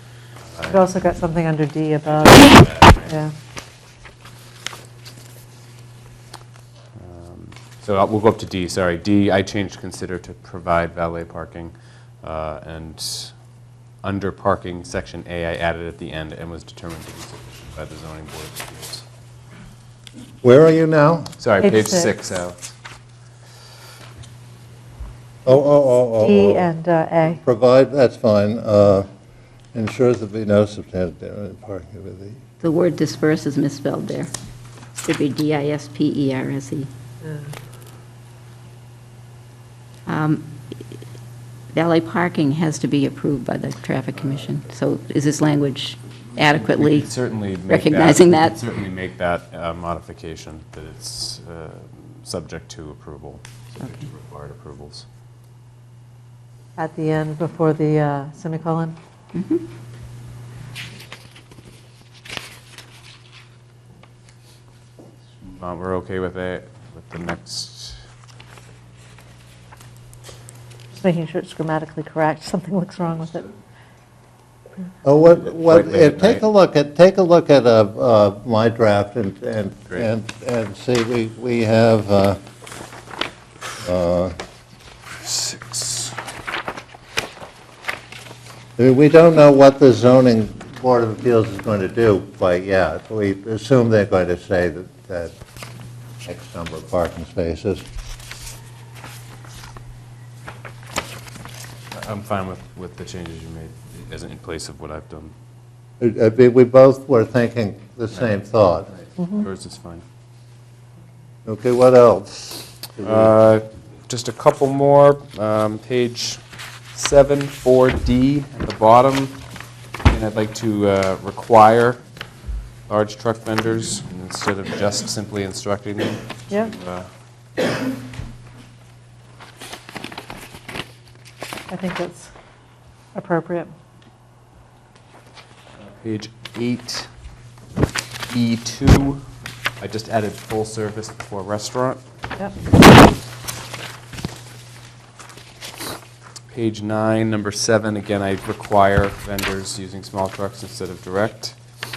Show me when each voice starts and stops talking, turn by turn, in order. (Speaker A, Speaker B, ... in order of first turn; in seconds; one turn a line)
Speaker A: 0.5-0.8
Speaker B: 0.7-3.3
Speaker A: 2.1-3.2
Speaker A: 7.0-13.3
Speaker A: 14.0-19.1
Speaker C: 20.4-21.4
Speaker A: 21.4-22.7
Speaker B: 21.6-22.1
Speaker C: 25.4-26.7
Speaker B: 26.2-27.4
Speaker C: 27.2-29.1
Speaker C: 29.7-32.4
Speaker D: 32.6-34.3
Speaker D: 35.0-36.9
Speaker D: 40.1-40.5
Speaker D: 41.7-47.1
Speaker A: 46.8-55.1
Speaker D: 47.7-48.6
Speaker B: 56.8-59.0
Speaker D: 59.3-59.6
Speaker A: 65.5-68.0
Speaker B: 70.9-73.5
Speaker C: 75.0-82.4
Speaker A: 75.4-76.5
Speaker C: 83.8-84.4
Speaker A: 85.3-86.1
Speaker C: 88.8-95.3
Speaker C: 96.2-97.8
Speaker A: 101.9-105.3
Speaker C: 106.0-108.9
Speaker A: 108.9-110.0
Speaker C: 111.5-113.3
Speaker A: 113.0-116.4
Speaker A: 116.9-119.4
Speaker A: 120.0-122.0
Speaker A: 122.9-127.1
Speaker B: 131.7-132.3
Speaker B: 133.2-133.7
Speaker A: 135.8-137.1
Speaker A: 138.3-139.2
Speaker A: 139.8-142.0
Speaker A: 146.5-151.6